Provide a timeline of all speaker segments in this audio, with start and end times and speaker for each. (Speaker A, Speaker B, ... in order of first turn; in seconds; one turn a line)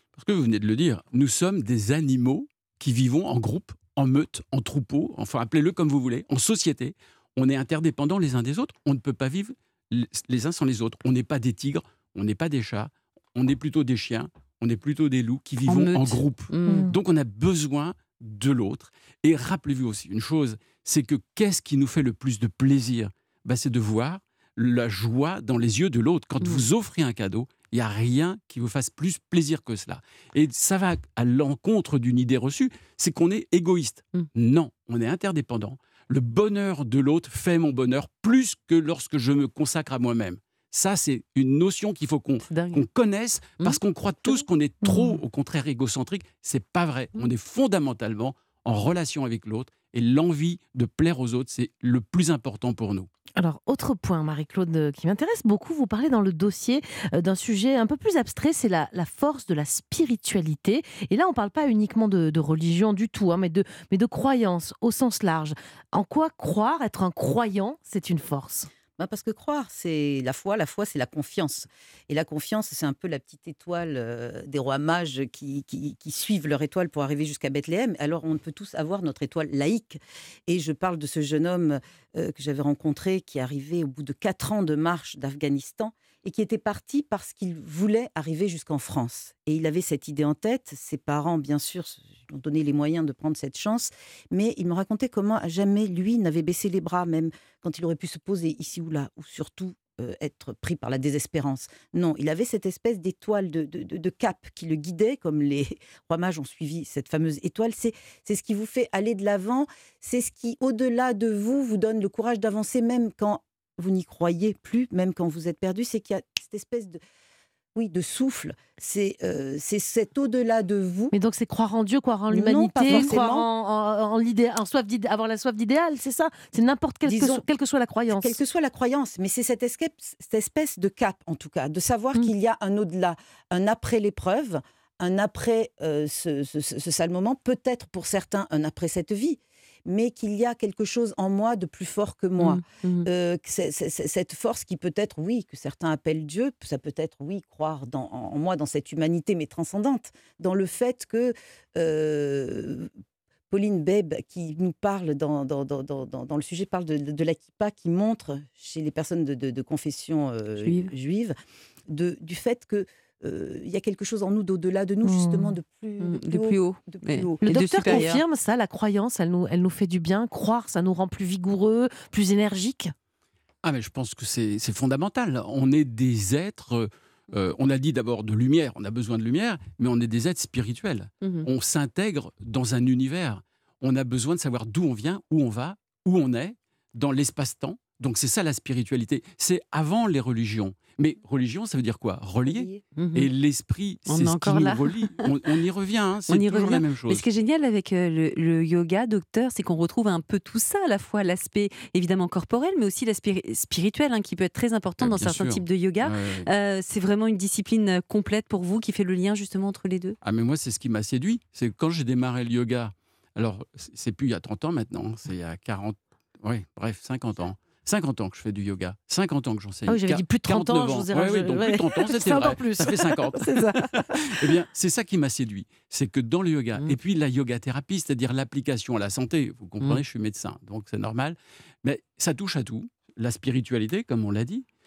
Speaker A: 0.1-53.1
Speaker B: 15.7-16.9
Speaker C: 16.7-17.0
Speaker B: 42.5-42.8
Speaker B: 43.6-44.4
Speaker C: 44.8-45.2
Speaker C: 53.4-68.7
Speaker D: 69.0-117.0
Speaker D: 117.7-121.1
Speaker C: 121.1-128.3
Speaker D: 122.3-123.5
Speaker D: 127.0-127.4
Speaker D: 128.1-152.9
Speaker B: 142.4-143.1
Speaker D: 153.5-161.3
Speaker B: 160.6-160.9
Speaker D: 161.9-168.1
Speaker C: 165.0-165.6
Speaker B: 166.0-168.2
Speaker C: 167.4-172.9
Speaker A: 173.6-197.2
Speaker B: 181.2-181.5
Speaker D: 192.4-192.8
Speaker B: 192.9-193.3
Speaker B: 194.1-195.2
Speaker B: 196.3-210.2
Speaker A: 205.0-206.5
Speaker A: 210.2-234.7
Speaker C: 219.9-224.5